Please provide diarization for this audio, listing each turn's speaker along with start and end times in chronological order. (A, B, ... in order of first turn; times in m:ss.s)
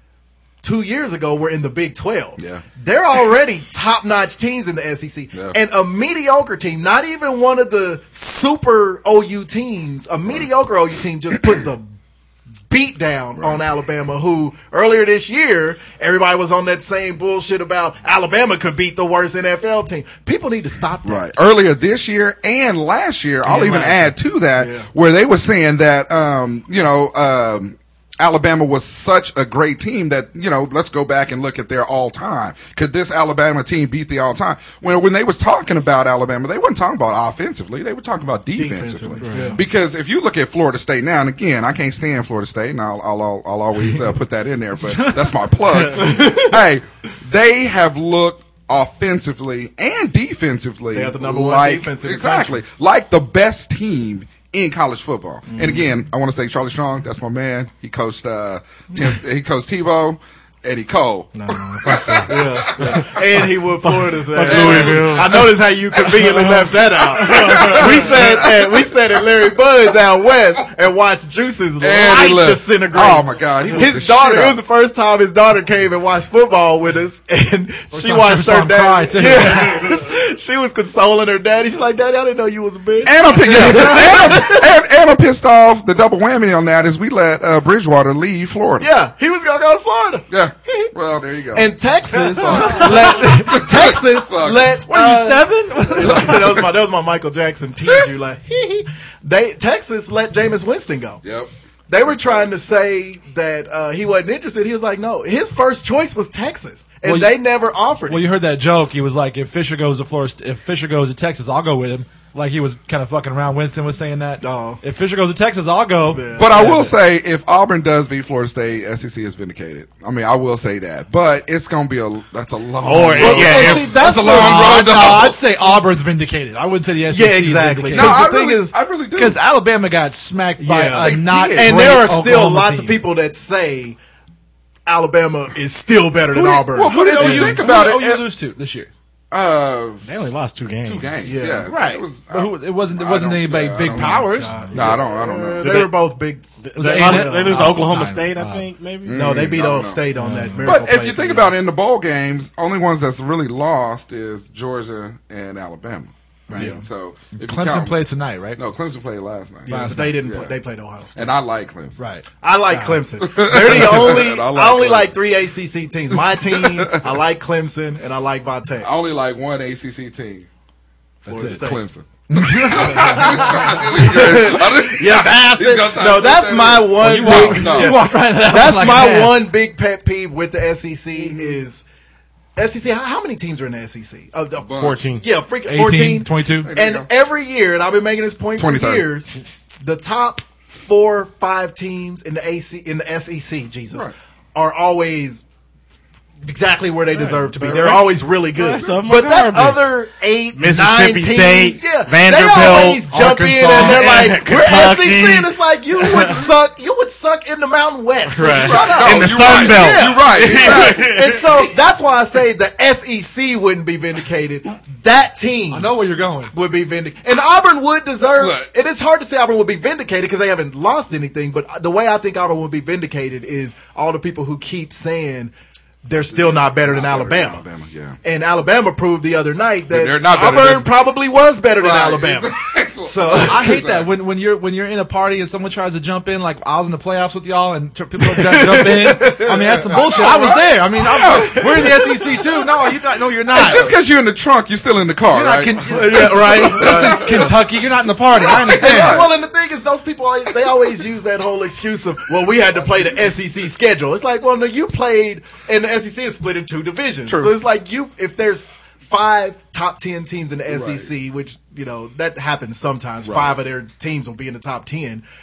0:00.6-0:11.9 A
0:02.4-0:02.6 B
0:12.7-0:21.3 A
0:13.4-0:13.6 B
0:21.0-1:03.0 B
0:23.5-0:24.9 A
0:23.6-0:23.9 C
0:38.6-0:39.6 A
0:39.3-0:39.6 C
0:45.9-0:46.6 A
0:50.9-0:52.6 A
0:55.5-0:55.9 A
1:01.3-1:03.2 D
1:02.3-1:24.7 A
1:03.8-1:05.5 D
1:04.4-1:05.5 B
1:06.1-1:08.2 D
1:07.1-1:09.1 B
1:11.8-1:14.6 B
1:17.9-1:20.0 C
1:23.0-1:28.9 B
1:28.8-1:30.9 A
1:30.3-1:31.7 B
1:31.5-1:41.2 A
1:32.1-1:33.1 C
1:32.3-1:34.8 B
1:34.8-1:36.5 C
1:36.0-1:36.7 B
1:37.8-1:38.1 B
1:41.2-1:41.5 B
1:41.9-1:48.3 A
1:42.0-1:42.6 B
1:47.0-1:47.3 C
1:48.1-1:56.9 C
1:54.4-1:54.8 A
1:56.1-1:56.7 A
1:56.3-2:05.4 B
2:02.8-2:03.8 D
2:03.2-2:05.0 A
2:03.2-2:08.2 C
2:07.1-2:08.8 A
2:07.9-2:09.4 B
2:09.2-2:13.0 C
2:10.6-2:14.0 A
2:10.9-2:12.0 B
2:14.8-2:17.6 A
2:16.3-2:18.3 B
2:16.8-2:18.9 C
2:19.3-2:20.1 B
2:20.0-2:21.2 D
2:20.8-2:25.8 B
2:21.2-2:21.7 A
2:21.6-2:24.7 C
2:23.9-2:27.8 A
2:25.6-2:25.9 D
2:26.6-2:29.2 D
2:26.8-2:28.7 C
2:29.0-2:30.0 B
2:29.1-2:31.5 A
2:30.2-2:30.8 C
2:30.6-2:38.0 B
2:36.5-2:36.7 C
2:36.5-2:36.8 A
2:37.4-2:38.6 C
2:38.6-2:40.5 B
2:39.6-2:41.4 A
2:39.7-2:40.2 C
2:41.1-2:42.0 B
2:42.0-2:43.0 C
2:42.4-2:48.9 A
2:43.2-2:45.2 B
2:46.1-2:47.2 B
2:48.8-2:50.5 B
2:51.2-2:51.6 C
2:51.2-2:51.8 A
2:51.2-2:58.0 B
2:52.3-2:53.6 C
2:52.8-3:01.8 A
2:57.0-2:59.4 C
3:01.1-3:01.6 B
3:02.6-3:09.3 A
3:04.6-3:05.0 B
3:04.8-3:05.2 D
3:05.7-3:06.7 C
3:06.6-3:07.1 B
3:08.6-3:09.1 B
3:09.8-3:15.4 A
3:16.4-3:35.9 A
3:17.1-3:19.8 D
3:20.5-3:23.0 D
3:23.1-3:24.0 C
3:23.7-3:26.5 D
3:28.3-3:31.7 D
3:28.4-3:31.1 B
3:35.7-3:36.5 C
3:36.5-3:45.5 A
3:38.2-3:38.7 B
3:46.0-3:47.6 A
3:46.3-3:48.2 B
3:48.2-3:52.5 A
3:49.9-3:50.9 B
3:51.7-3:54.1 B
3:53.0-3:53.8 A
3:53.4-4:04.0 C
3:58.2-4:00.3 A
3:59.6-4:02.0 B
4:01.0-4:02.3 A
4:03.5-4:07.6 B
4:05.3-4:09.2 C
4:05.9-4:07.5 A
4:08.3-4:09.3 B
4:08.7-4:25.2 A
4:20.7-4:21.1 B
4:23.2-4:23.6 B